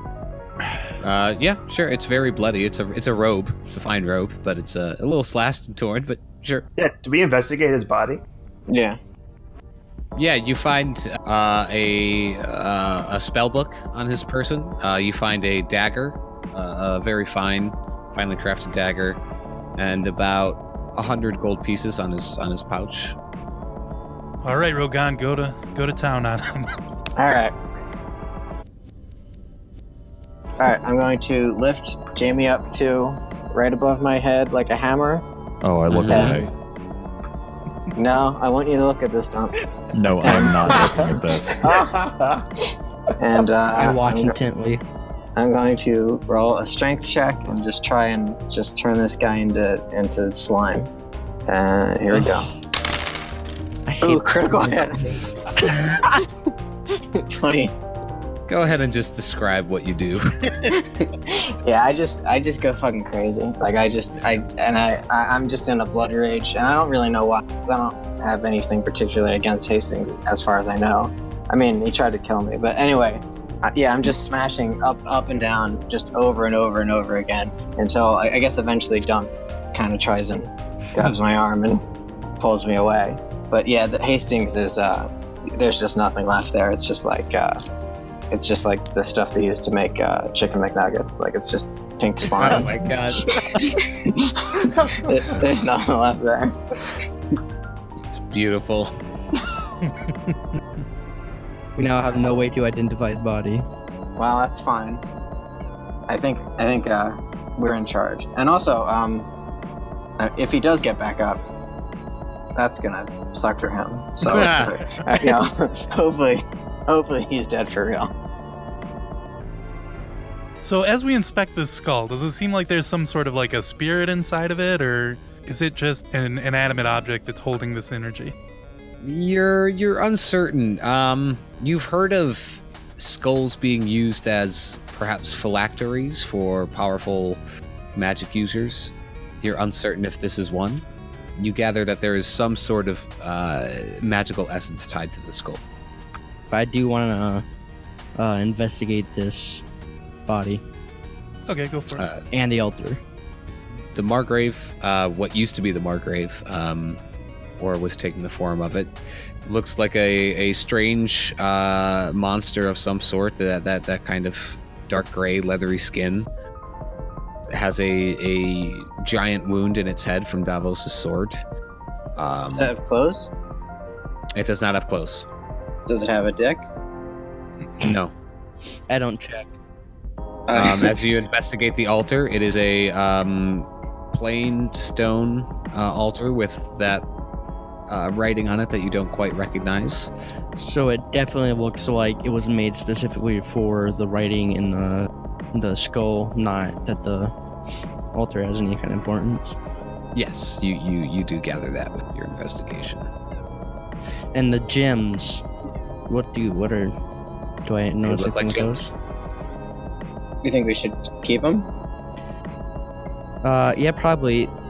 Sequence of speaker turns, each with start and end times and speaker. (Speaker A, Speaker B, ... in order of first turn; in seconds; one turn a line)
Speaker A: 1.0-6.7
Speaker B: 6.8-8.2
Speaker C: 8.7-9.0
Speaker A: 10.2-19.2
Speaker A: 19.8-23.2
Speaker D: 24.4-26.7
Speaker C: 27.2-27.6
Speaker C: 30.6-35.2
Speaker E: 35.6-36.5
Speaker A: 35.9-36.4
Speaker C: 36.1-36.4
Speaker C: 38.0-39.5
Speaker E: 39.9-41.7
Speaker C: 40.1-42.0
Speaker B: 41.6-42.5
Speaker C: 43.2-44.4
Speaker F: 43.7-44.8
Speaker C: 45.4-50.9
Speaker C: 51.5-52.5
Speaker F: 52.1-52.4
Speaker F: 53.9-55.2
Speaker C: 54.0-56.2
Speaker C: 57.1-57.8
Speaker A: 58.5-60.4
Speaker C: 60.6-81.8
Speaker C: 82.4-87.6
Speaker C: 88.3-97.0
Speaker A: 92.2-93.5
Speaker A: 98.0-98.9
Speaker F: 101.8-103.7
Speaker C: 104.2-105.0
Speaker C: 106.1-109.3
Speaker C: 110.2-111.4
Speaker C: 112.6-118.1
Speaker A: 114.2-114.8
Speaker D: 115.1-115.4
Speaker D: 120.6-128.3
Speaker A: 129.0-137.4
Speaker A: 137.9-140.8
Speaker A: 141.4-145.6
Speaker F: 146.5-147.4
Speaker F: 148.2-149.6
Speaker F: 150.3-150.6
Speaker D: 151.5-152.1
Speaker A: 152.0-152.2
Speaker F: 152.3-153.0
Speaker A: 153.9-157.0
Speaker A: 157.6-158.9
Speaker A: 159.4-166.3
Speaker A: 167.5-171.4
Speaker A: 172.2-172.7
Speaker C: 172.5-173.3
Speaker A: 174.3-175.3
Speaker C: 175.9-176.7
Speaker A: 177.8-178.1
Speaker F: 178.9-179.5
Speaker C: 180.5-181.0
Speaker A: 180.5-187.1
Speaker A: 187.9-190.1
Speaker F: 190.6-197.3
Speaker F: 198.1-199.6
Speaker A: 200.2-203.1
Speaker F: 204.3-205.4
Speaker F: 206.1-206.9
Speaker F: 207.6-208.9
Speaker A: 208.0-208.9
Speaker C: 210.4-211.7
Speaker F: 213.4-214.5